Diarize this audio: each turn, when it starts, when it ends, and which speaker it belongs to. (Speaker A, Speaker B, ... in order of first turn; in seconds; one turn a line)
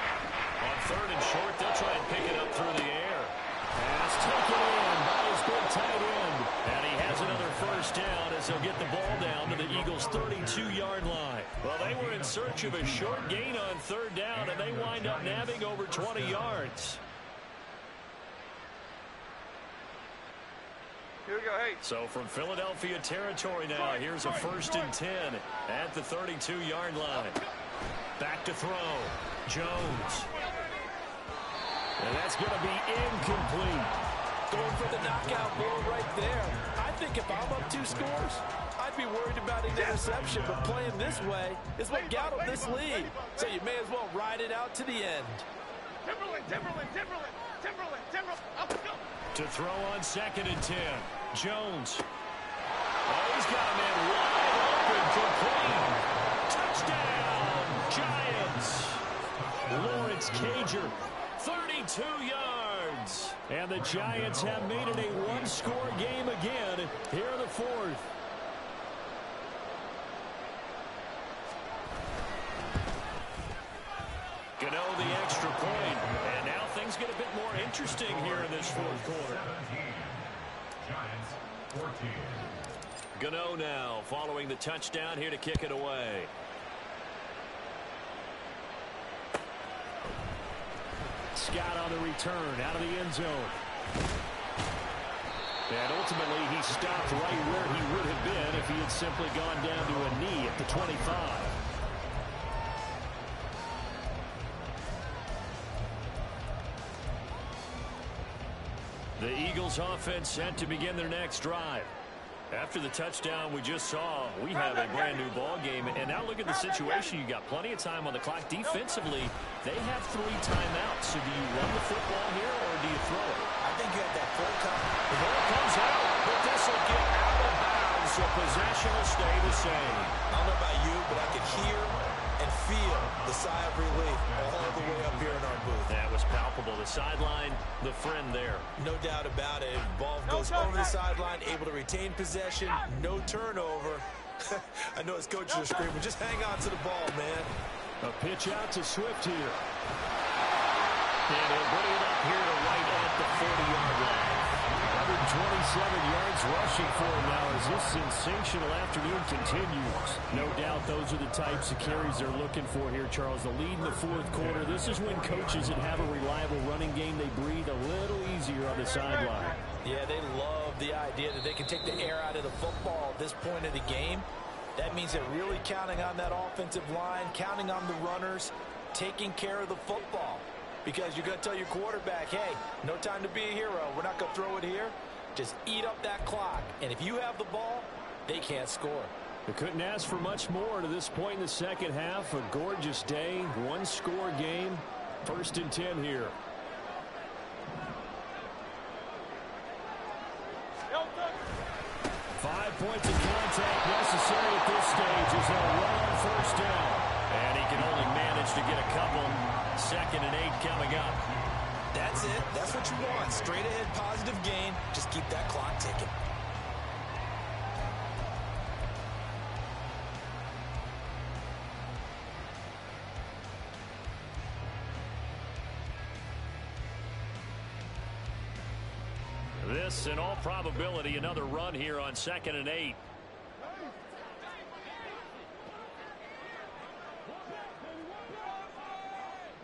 Speaker A: 0.6-17.0
Speaker B: 7.0-10.9
Speaker B: 11.7-13.5
Speaker B: 14.3-16.6
Speaker C: 21.3-21.8
Speaker A: 21.8-27.4
Speaker C: 23.8-24.9
Speaker C: 27.2-27.5
Speaker A: 28.2-30.3
Speaker C: 30.3-30.8
Speaker A: 32.0-34.0
Speaker D: 34.5-45.5
Speaker B: 34.5-38.4
Speaker C: 39.7-40.1
Speaker B: 39.9-41.4
Speaker C: 41.9-43.6
Speaker C: 46.0-49.1
Speaker A: 49.3-52.0
Speaker A: 53.0-59.0
Speaker B: 55.7-56.1
Speaker B: 59.3-60.9
Speaker A: 59.7-68.0
Speaker B: 63.7-66.1
Speaker A: 74.6-79.4
Speaker B: 75.0-76.7
Speaker B: 77.6-82.6
Speaker A: 83.1-86.3
Speaker A: 91.3-93.6
Speaker A: 95.7-101.6
Speaker B: 96.8-98.6
Speaker A: 109.2-111.9
Speaker A: 112.5-123.5
Speaker D: 123.6-125.0
Speaker A: 125.1-130.2
Speaker D: 130.3-135.9
Speaker B: 131.1-135.8
Speaker A: 135.9-138.7
Speaker D: 138.8-147.5
Speaker A: 148.0-149.6
Speaker A: 151.3-169.6
Speaker B: 164.3-166.1
Speaker D: 169.8-189.1
Speaker A: 189.5-196.3
Speaker A: 202.3-211.2
Speaker D: 211.9-216.1
Speaker B: 212.0-213.7
Speaker A: 229.6-233.0